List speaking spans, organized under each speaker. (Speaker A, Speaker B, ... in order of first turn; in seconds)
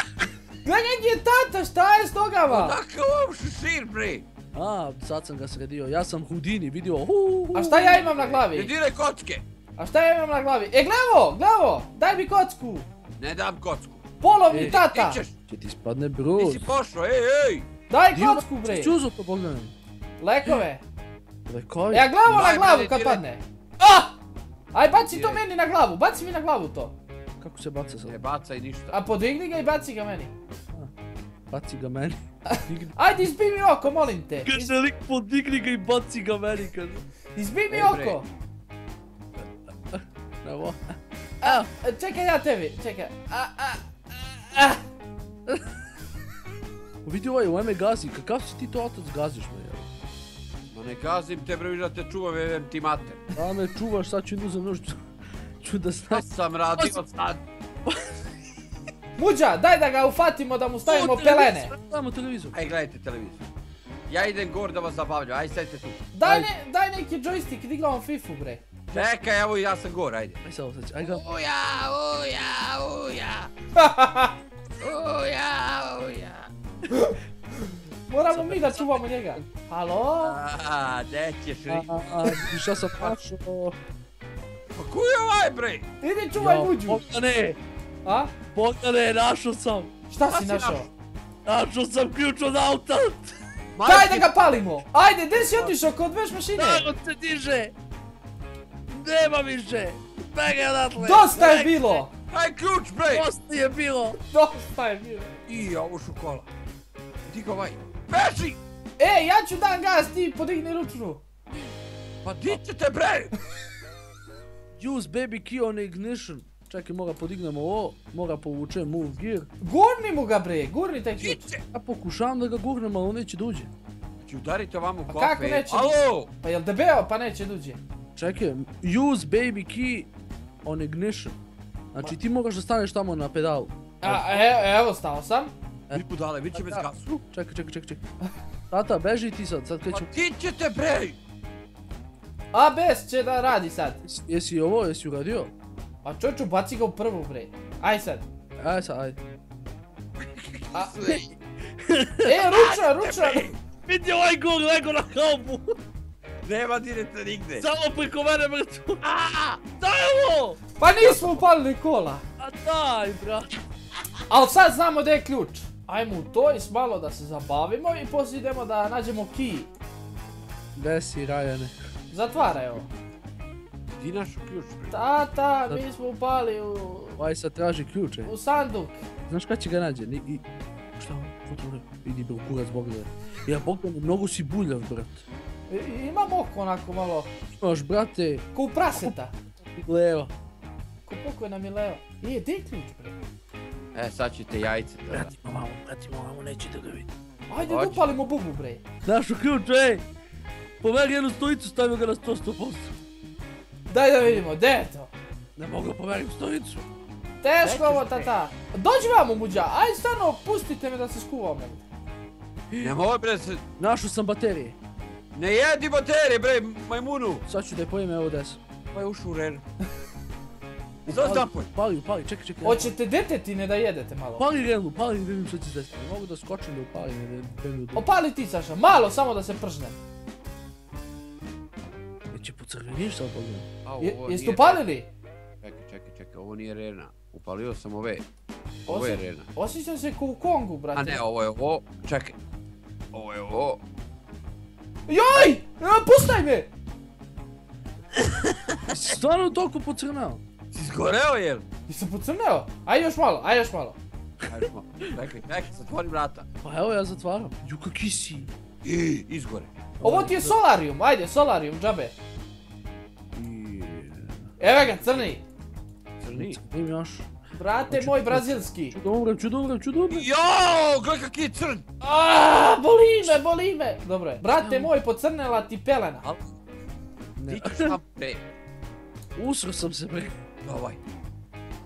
Speaker A: 0.6-2.8, 7.5-8.7, 9.8-12.9, 14.2-15.2, 17.9-19.0, 20.2-20.8, 21.9-24.1, 24.7-26.9, 28.9-30.3, 32.5-34.7, 37.4-38.3, 41.4-44.8, 59.2-61.7, 66.1-68.6, 73.8-74.3, 78.1-80.4, 86.0-87.0, 88.0-88.3, 90.1-90.9, 93.8-96.9, 101.0-102.1, 104.3-105.3, 109.0-111.2, 119.6-121.5, 125.1-127.8, 134.0-135.5, 142.5-144.0, 146.0-148.2, 150.7-151.2, 152.2-153.5, 160.8-162.2, 164.3-169.7, 172.1-172.9, 174.9-177.2, 178.2-179.1, 185.7-187.3, 188.5-189.3, 191.1-193.2, 197.5-198.8, 203.9-205.1, 207.4-211.8, 222.6-224.5, 227.9-230.0, 234.0-235.1, 238.9-241.2, 245.1-246.7, 251.9-254.0, 260.0-262.1, 264.6-265.4, 267.5-269.0, 272.0-276.2
Speaker B: 2.5-4.2, 8.3-9.4, 13.2-15.3, 16.4-17.7, 22.3-23.2, 25.1-25.4, 28.1-29.0, 37.7-38.2, 50.7-53.2, 56.1-57.4, 62.5-63.5, 64.1-66.0, 68.9-70.4, 71.0-73.5, 74.8-76.5, 80.2-81.9, 84.7-85.9, 90.3-90.9, 93.8-94.3, 102.3-103.3, 105.5-106.5, 107.3-108.6, 112.2-113.3, 121.2-121.6, 124.2-126.3, 135.9-137.2, 139.9-141.2, 150.2-151.3, 152.5-153.6, 156.4-157.7, 159.0-159.6, 174.0-175.0, 193.9-195.3, 197.7-198.1, 207.6-208.3, 212.8-213.6, 215.3-217.4, 218.9-219.6, 221.1-221.7, 233.8-234.9, 235.6-238.2, 238.9-239.5, 240.9-242.4, 243.1-243.8, 250.7-251.7, 254.5-256.5, 258.8-259.7, 266.2-266.6, 270.1-271.9, 276.2-276.5, 277.4-278.4, 280.6-281.0
Speaker C: 4.5-8.3, 14.5-14.8, 15.5-16.7, 18.1-19.7, 21.5-22.5, 27.4-28.2, 31.5-33.0, 34.5-37.0, 39.9-41.7, 47.0-49.9, 53.3-55.0, 55.6-56.2, 60.9-62.6, 66.2-66.5, 70.4-71.2, 78.3-79.5, 81.7-83.8, 86.3-87.6, 88.5-89.9, 91.5-93.3, 96.6-97.7, 98.9-102.0, 103.1-104.2, 114.8-119.5, 121.7-123.7, 128.2-130.1, 130.7-131.4, 131.9-134.4, 135.9-138.0, 138.7-140.1, 144.1-145.5, 148.6-149.2, 151.8-152.4, 153.9-155.8, 157.6-159.0, 159.8-161.4, 162.4-163.6, 170.8-171.7, 177.2-178.3, 179.3-180.4, 181.0-185.3, 187.6-188.4, 189.7-190.3, 195.1-197.1, 199.1-200.0, 200.8-203.0, 205.6-206.9, 212.7-213.0, 213.8-214.8, 217.4-218.6, 221.1-222.9, 224.4-228.1, 232.3-233.7, 248.9-250.4, 254.5-255.1, 256.6-258.5, 260.0-260.6, 263.3-264.5, 266.3-267.3, 267.9-270.3, 274.5-274.9, 277.4-278.0, 279.4-280.3